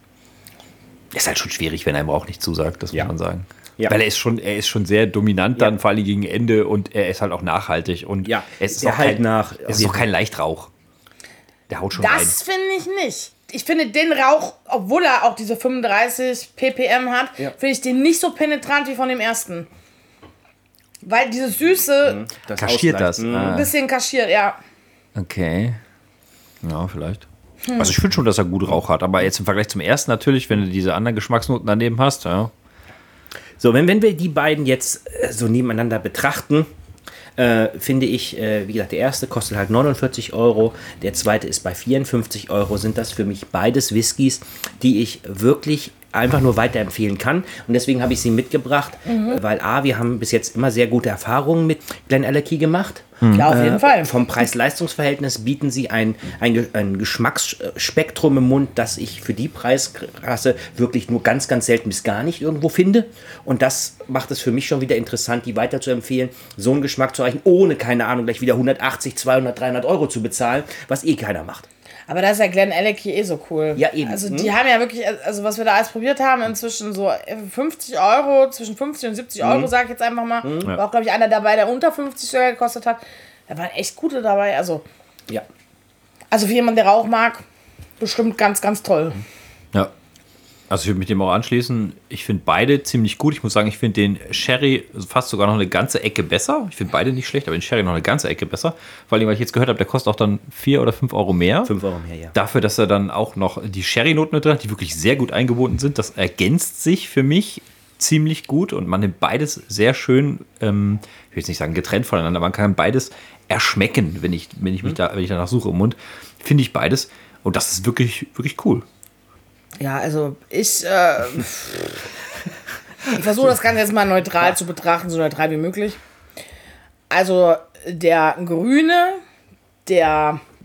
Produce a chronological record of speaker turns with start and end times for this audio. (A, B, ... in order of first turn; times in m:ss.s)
0:01.1-0:10.7 A
0:08.2-0:10.1 B
0:11.7-0:12.3 A
0:11.9-0:19.7 C
0:21.0-0:22.3 C
0:22.0-0:23.6 B
0:22.6-0:23.7 A
0:23.3-0:24.6 C
0:25.2-0:25.8 A
0:26.6-0:27.3 A
0:27.7-0:27.9 C
0:27.8-0:32.5 A
0:33.6-0:36.7 B
0:37.4-1:11.7 B
0:49.1-0:49.4 C
0:53.2-0:53.5 A
0:53.3-0:54.2 C
1:12.1-1:24.8 C
1:13.8-1:14.5 B
1:19.4-1:19.7 B
1:20.4-1:20.7 B
1:26.3-1:27.4 C
1:28.0-1:29.2 C
1:30.7-1:41.7 A
1:41.6-1:42.3 B
1:42.3-1:58.8 A
1:59.8-2:02.0 C
2:03.1-2:06.0 C
2:07.1-2:09.2 C
2:09.8-2:10.4 C